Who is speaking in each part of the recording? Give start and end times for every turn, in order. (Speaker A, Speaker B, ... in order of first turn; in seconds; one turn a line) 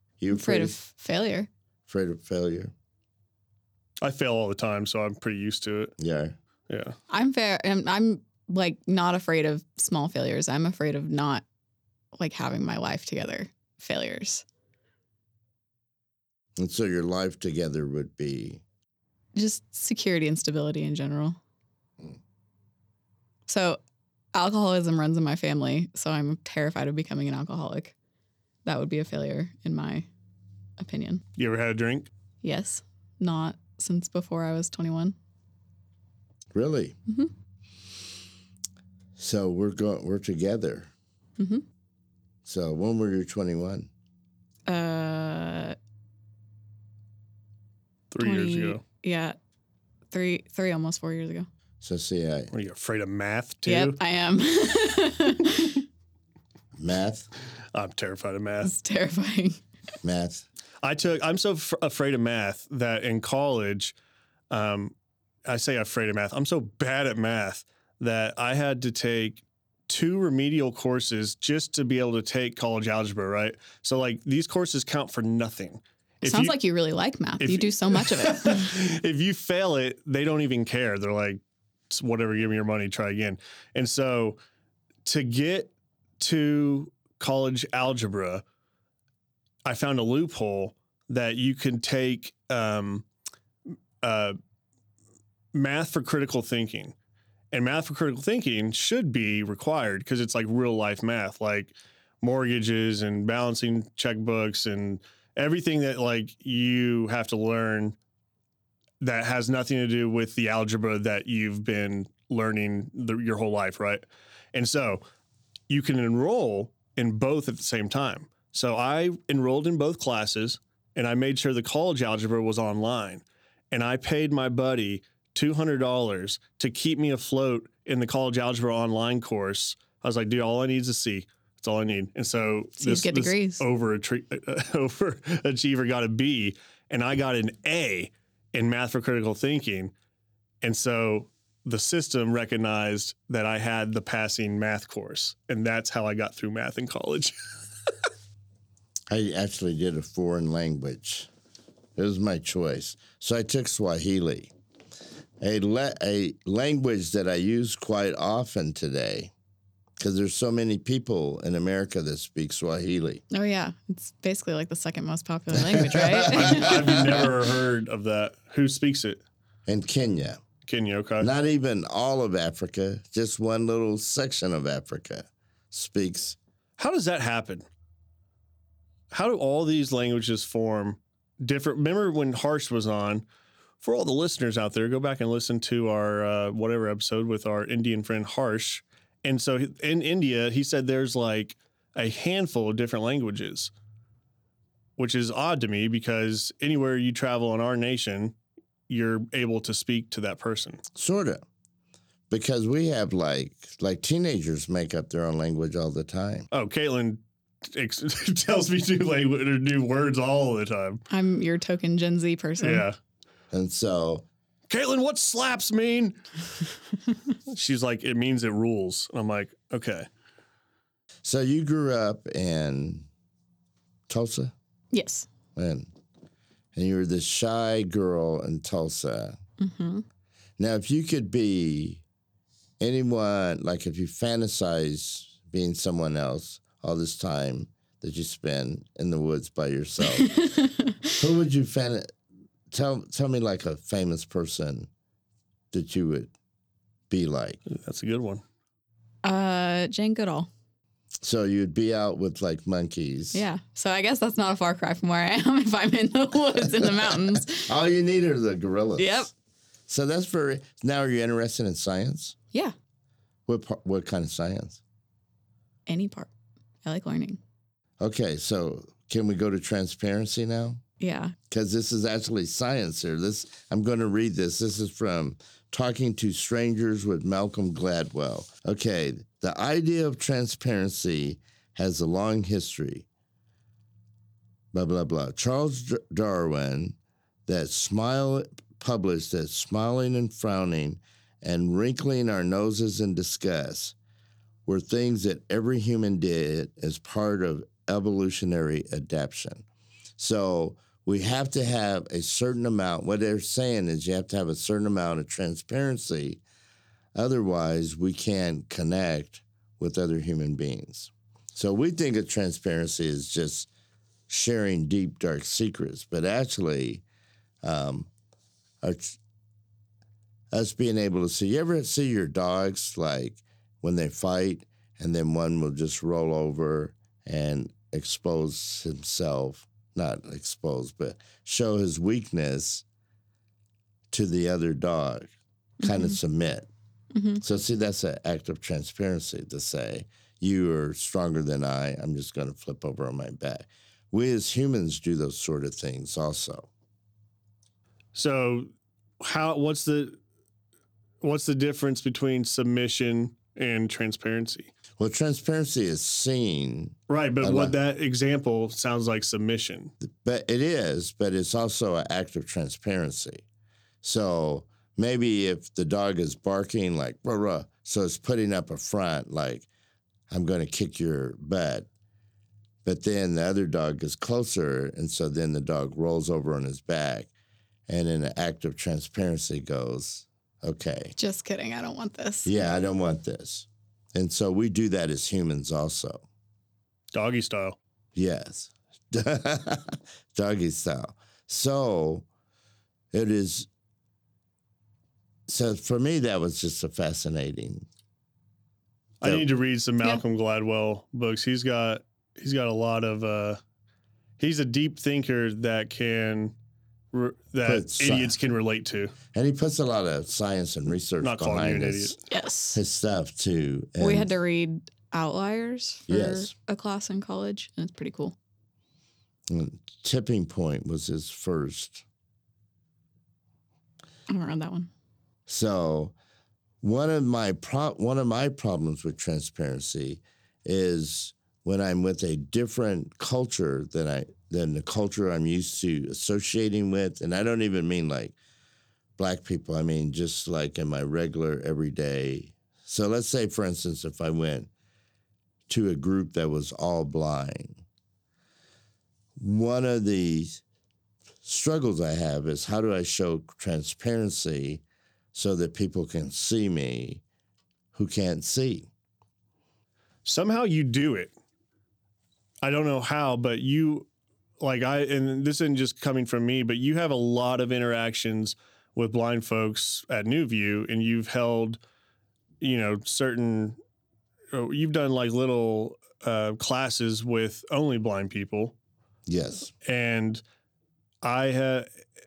Speaker A: 0.2-0.8
Speaker B: 0.3-1.5
Speaker A: 1.9-2.7
Speaker C: 4.0-5.9
Speaker A: 6.0-6.4
Speaker C: 6.7-7.0
Speaker B: 7.1-11.4
Speaker B: 12.2-14.4
Speaker A: 16.6-18.6
Speaker B: 19.4-21.4
Speaker B: 23.5-23.8
Speaker B: 24.3-27.9
Speaker B: 28.6-30.1
Speaker B: 30.8-31.2
Speaker C: 31.4-32.1
Speaker B: 32.4-35.2
Speaker A: 36.5-37.0
Speaker B: 37.1-37.3
Speaker A: 39.2-40.9
Speaker B: 41.4-41.6
Speaker A: 42.5-43.9
Speaker B: 44.7-45.8
Speaker C: 48.1-48.8
Speaker B: 48.2-49.4
Speaker B: 50.1-51.5
Speaker A: 51.8-52.5
Speaker C: 52.5-54.0
Speaker B: 53.7-55.8
Speaker A: 56.8-57.3
Speaker C: 57.7-58.7
Speaker B: 58.6-59.6
Speaker A: 60.0-60.5
Speaker C: 60.8-63.9
Speaker C: 64.5-64.9
Speaker C: 65.5-76.5
Speaker B: 76.2-78.7
Speaker C: 77.4-84.4
Speaker C: 85.0-88.4
Speaker C: 89.7-93.0
Speaker C: 94.0-94.4
Speaker C: 95.5-96.9
Speaker C: 97.5-108.0
Speaker C: 109.0-115.0
Speaker C: 115.7-139.9
Speaker B: 132.8-133.6
Speaker C: 140.6-147.3
Speaker A: 149.1-151.3
Speaker A: 152.0-154.5
Speaker A: 155.4-159.3
Speaker A: 160.0-163.2
Speaker B: 163.3-167.2
Speaker A: 165.5-167.3
Speaker C: 166.3-169.2
Speaker A: 169.7-170.4
Speaker C: 170.7-171.3
Speaker A: 171.2-176.4
Speaker C: 176.8-177.7
Speaker C: 179.1-183.2
Speaker C: 183.8-193.7
Speaker C: 195.0-198.3
Speaker C: 198.9-200.8
Speaker A: 200.9-201.4
Speaker A: 202.3-206.5
Speaker C: 206.5-211.0
Speaker B: 211.1-212.9
Speaker C: 212.6-212.9
Speaker A: 213.5-214.3
Speaker C: 214.7-216.2
Speaker C: 217.5-220.1
Speaker A: 221.2-223.1
Speaker A: 224.1-224.5
Speaker B: 224.9-225.3
Speaker A: 225.6-225.9
Speaker A: 226.8-229.4
Speaker B: 229.6-230.0
Speaker A: 230.6-232.0
Speaker A: 232.8-240.4
Speaker B: 240.2-241.1
Speaker A: 241.2-242.1
Speaker A: 242.7-244.9
Speaker A: 245.7-246.3
Speaker A: 247.1-247.6
Speaker C: 247.7-248.4
Speaker B: 249.2-250.5
Speaker A: 251.2-253.4
Speaker B: 253.3-257.7
Speaker A: 256.8-259.3
Speaker B: 259.0-259.3
Speaker A: 259.9-262.4
Speaker A: 263.5-264.8
Speaker B: 265.9-266.3
Speaker B: 266.8-267.4
Speaker A: 268.0-270.8
Speaker B: 271.0-271.4
Speaker A: 271.5-283.1
Speaker A: 284.7-293.9
Speaker A: 294.7-299.7
Speaker A: 300.2-306.4
Speaker A: 307.1-313.7
Speaker A: 314.3-317.0
Speaker A: 317.6-318.1
Speaker A: 318.8-319.2
Speaker A: 320.5-332.8
Speaker A: 334.1-335.3
Speaker A: 335.8-336.7
Speaker B: 335.8-336.2
Speaker B: 337.1-337.4
Speaker A: 337.4-346.7
Speaker C: 348.1-350.2
Speaker C: 351.2-354.7
Speaker A: 355.0-357.8
Speaker C: 357.1-359.9
Speaker A: 360.0-363.4
Speaker A: 364.0-369.7
Speaker A: 370.3-371.9
Speaker A: 372.9-377.3
Speaker A: 377.9-381.1
Speaker B: 381.2-382.5
Speaker A: 382.4-386.2
Speaker C: 387.1-387.8
Speaker A: 388.1-392.3
Speaker A: 393.1-393.7
Speaker A: 395.5-397.9
Speaker C: 399.2-403.6
Speaker C: 404.4-406.5
Speaker C: 407.1-409.1
Speaker A: 407.6-408.4
Speaker A: 409.3-412.2
Speaker C: 411.2-412.2
Speaker B: 412.3-412.8
Speaker A: 412.7-414.3
Speaker B: 414.0-418.4
Speaker A: 416.1-416.5
Speaker A: 419.5-422.1
Speaker B: 424.3-424.9
Speaker A: 425.5-426.1
Speaker A: 426.8-438.4
Speaker A: 439.2-444.7
Speaker A: 445.7-447.8
Speaker A: 449.4-450.6
Speaker A: 451.4-454.8
Speaker A: 455.3-457.2
Speaker A: 457.9-458.9
Speaker C: 460.3-461.3
Speaker C: 462.6-464.1
Speaker C: 464.6-471.8
Speaker C: 472.6-473.8
Speaker C: 474.5-478.8
Speaker A: 479.3-479.7
Speaker C: 479.8-480.4
Speaker C: 481.2-481.9